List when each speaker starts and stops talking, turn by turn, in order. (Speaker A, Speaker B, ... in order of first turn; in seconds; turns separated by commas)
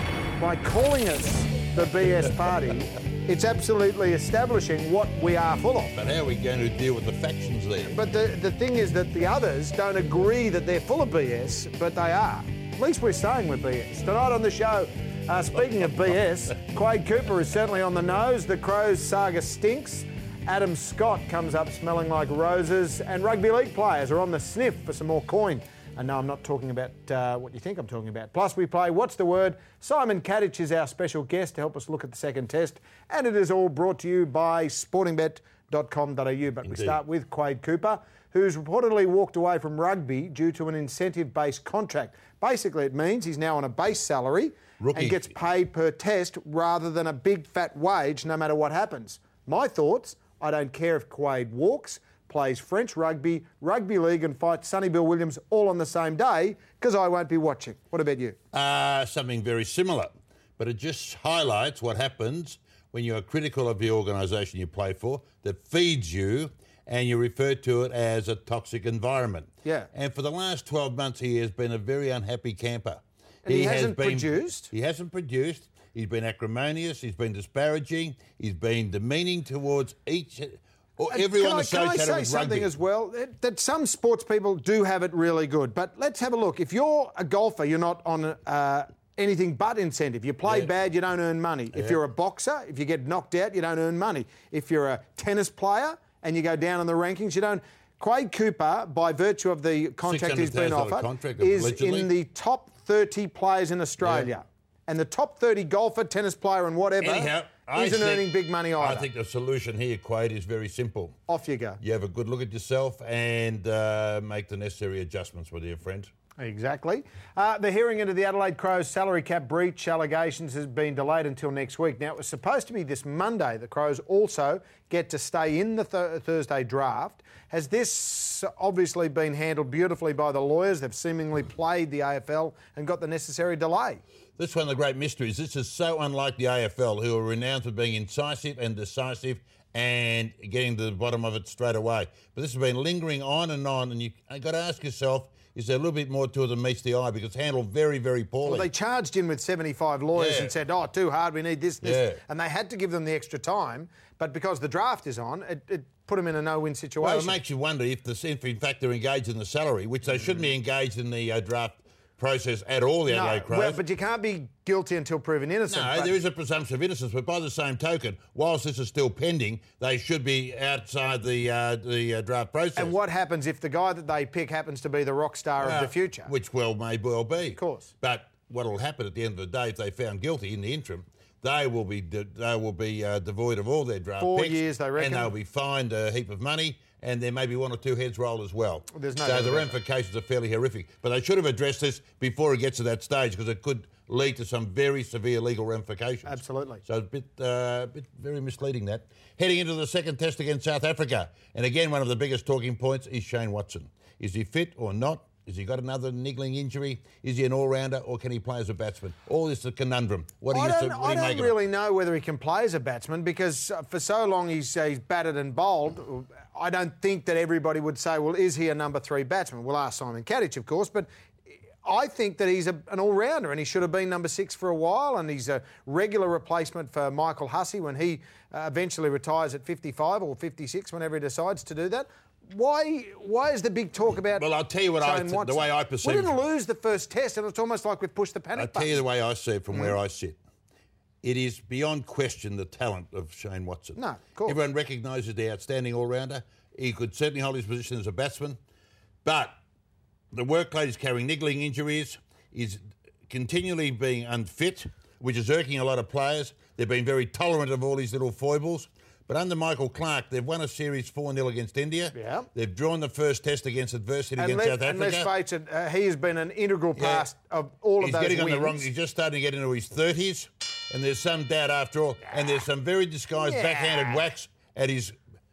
Speaker A: 0.3-5.9, Speaker B: 5.9-8.0, Speaker A: 7.9-58.4, Speaker B: 36.7-37.0, Speaker B: 44.8-45.2, Speaker B: 58.5-82.7, Speaker A: 69.6-69.9, Speaker A: 73.4-74.7, Speaker A: 81.1-109.0, Speaker B: 90.4-90.7, Speaker B: 91.7-92.0, Speaker B: 100.0-102.1, Speaker B: 104.0-104.3, Speaker B: 107.0-111.2, Speaker A: 111.3-111.8, Speaker B: 111.8-116.1, Speaker A: 116.4-134.0, Speaker B: 134.4-148.7, Speaker A: 148.4-157.4, Speaker B: 150.1-150.5, Speaker B: 151.8-152.2, Speaker B: 157.0-163.8, Speaker A: 163.1-166.1, Speaker B: 165.7-172.9, Speaker A: 172.8-176.3, Speaker B: 175.6-211.6, Speaker A: 177.6-177.9, Speaker A: 184.2-185.3, Speaker A: 188.9-189.8, Speaker A: 196.2-196.8, Speaker A: 210.5-221.1, Speaker A: 221.8-234.4, Speaker B: 234.3-236.3, Speaker A: 235.0-239.0, Speaker B: 238.5-240.4, Speaker B: 241.2-248.6, Speaker A: 243.9-244.6, Speaker B: 249.2-249.6, Speaker B: 250.3-265.3, Speaker A: 262.1-262.5, Speaker A: 264.4-268.9, Speaker B: 266.9-267.3, Speaker B: 268.0-275.1, Speaker A: 273.4-274.2